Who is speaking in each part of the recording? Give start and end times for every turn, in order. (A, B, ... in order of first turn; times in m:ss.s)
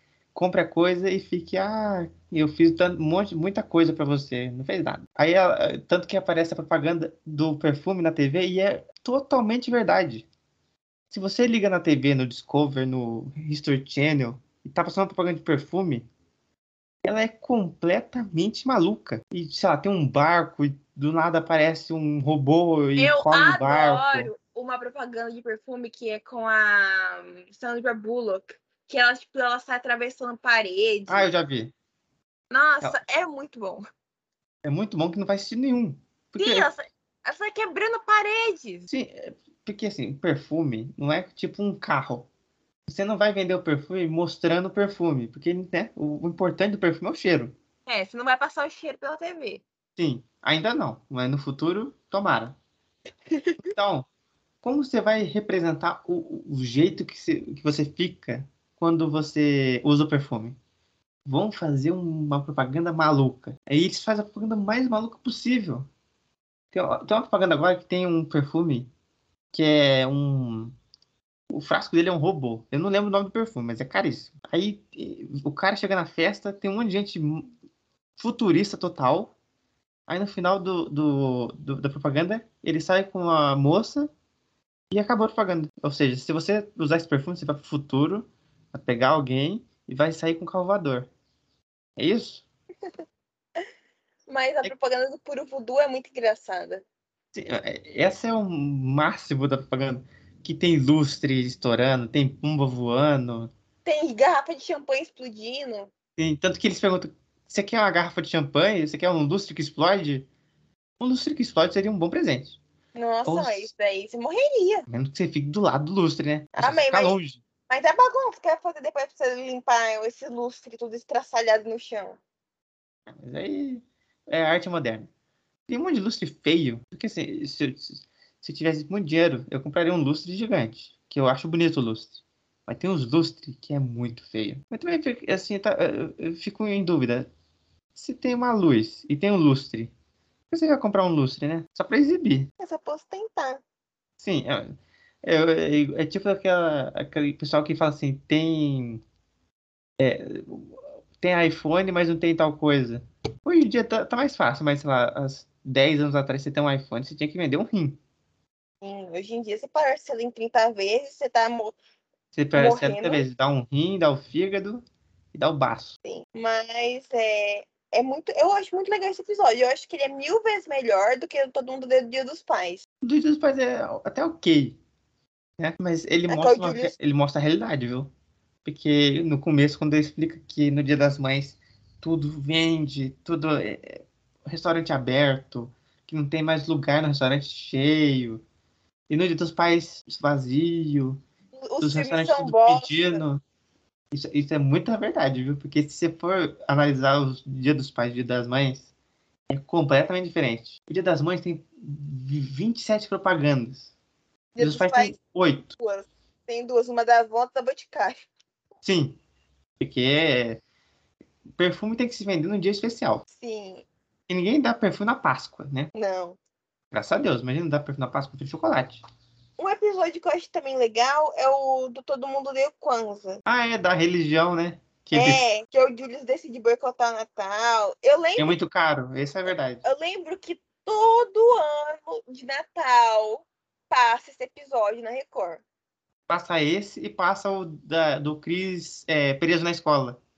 0:00.4-0:10.3 A
0:11.1-0:16.1 A
0:17.0-0:24.3 A
0:23.0-0:31.3 B
0:31.1-0:31.7 A
0:32.5-0:33.8 B
0:34.6-0:36.7 A
0:36.4-0:38.9 B
0:38.9-0:42.3 A
0:42.9-0:47.5 A
0:47.9-0:49.6 B
0:50.0-0:52.6 A
0:53.3-0:53.7 B
0:53.7-0:54.1 A
0:54.6-1:00.6 A
1:01.3-1:05.9 A
1:06.7-1:08.9 A
1:09.5-1:10.7 A
1:11.5-1:17.5 A
1:18.2-1:19.4 A
1:20.1-1:24.1 A
1:24.9-1:31.1 A
1:32.0-1:32.5 A
1:34.3-1:36.8 B
1:37.3-1:43.5 A
1:43.8-1:45.9 B
1:46.2-1:50.3 A
1:51.0-1:52.6 A
1:53.0-1:54.9 B
1:53.3-1:53.7 A
1:54.9-1:57.4 A
1:56.6-1:57.2 B
1:57.7-2:02.2 B
2:03.1-2:05.1 A
2:05.7-2:17.3 A
2:18.0-2:19.9 A
2:20.5-2:22.5 A
2:22.6-2:23.6 B
2:24.2-2:29.0 A
2:30.0-2:38.0 A
2:38.8-2:41.8 B
2:42.4-2:46.0 A
2:42.5-2:43.2 B
2:46.1-2:52.8 B
2:53.0-2:54.8 A
2:55.6-2:58.1 A
2:56.3-2:56.9 B
2:58.6-3:08.4 A
3:09.1-3:11.2 A
3:11.6-3:13.2 B
3:11.8-3:13.4 A
3:14.1-3:18.9 A
3:19.5-3:23.9 A
3:24.6-3:25.2 B
3:24.6-3:25.7 A
3:25.8-3:28.2 B
3:28.8-3:29.2 A
3:29.8-3:30.6 A
3:31.6-3:33.2 A
3:33.3-3:33.9 B
3:34.3-3:35.9 A
3:36.0-3:36.4 B
3:36.9-3:39.0 A
3:39.6-3:43.4 B
3:43.5-3:45.4 A
3:45.1-3:48.6 B
3:48.4-3:49.8 A
3:49.8-3:55.6 B
3:56.3-4:00.2 A